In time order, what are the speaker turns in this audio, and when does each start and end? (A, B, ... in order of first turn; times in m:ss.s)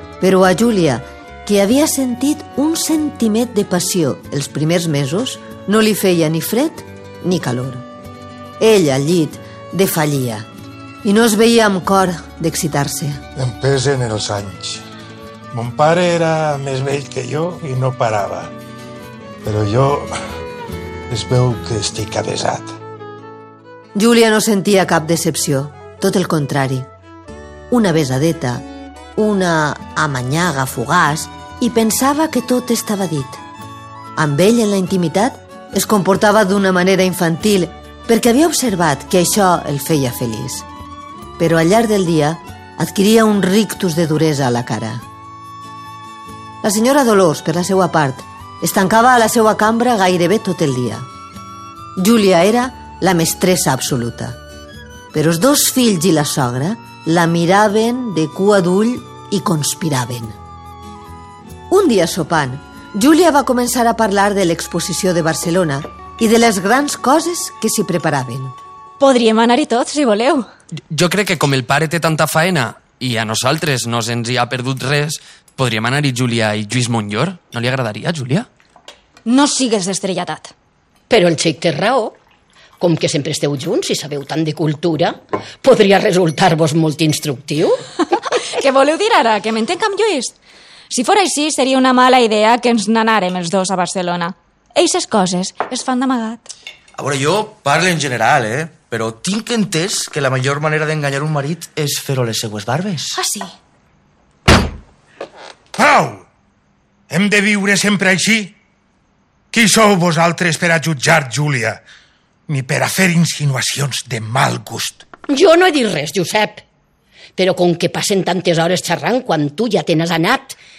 0:00.2-0:07.8 A
0:08.6-0:10.5 A
0:11.0-0:13.2 A
0:13.4-0:14.8 B
0:15.5-0:18.5 B
0:19.4-0:20.1 B
0:21.1-0:22.8 B
0:24.0-0:26.9 A
0:27.7-0:28.6 A
0:29.2-0:33.4 A
0:34.2-0:40.7 A
0:41.4-0:45.0 A
0:46.6-0:51.1 A
0:52.0-0:54.4 A
0:55.1-1:00.4 A
1:01.7-1:08.6 A
1:09.0-1:10.5 C
1:10.9-1:18.5 D
1:19.3-1:20.5 C
1:21.1-1:22.2 E
1:22.8-1:27.8 E
1:28.2-1:30.4 C
1:30.9-1:36.5 C
1:37.0-1:43.2 F
1:43.1-1:43.5 C
1:45.8-1:46.3 B
1:47.1-1:48.6 B
1:49.5-1:51.8 B
1:52.5-1:55.0 B
1:55.3-1:56.6 E
1:57.4-2:00.6 E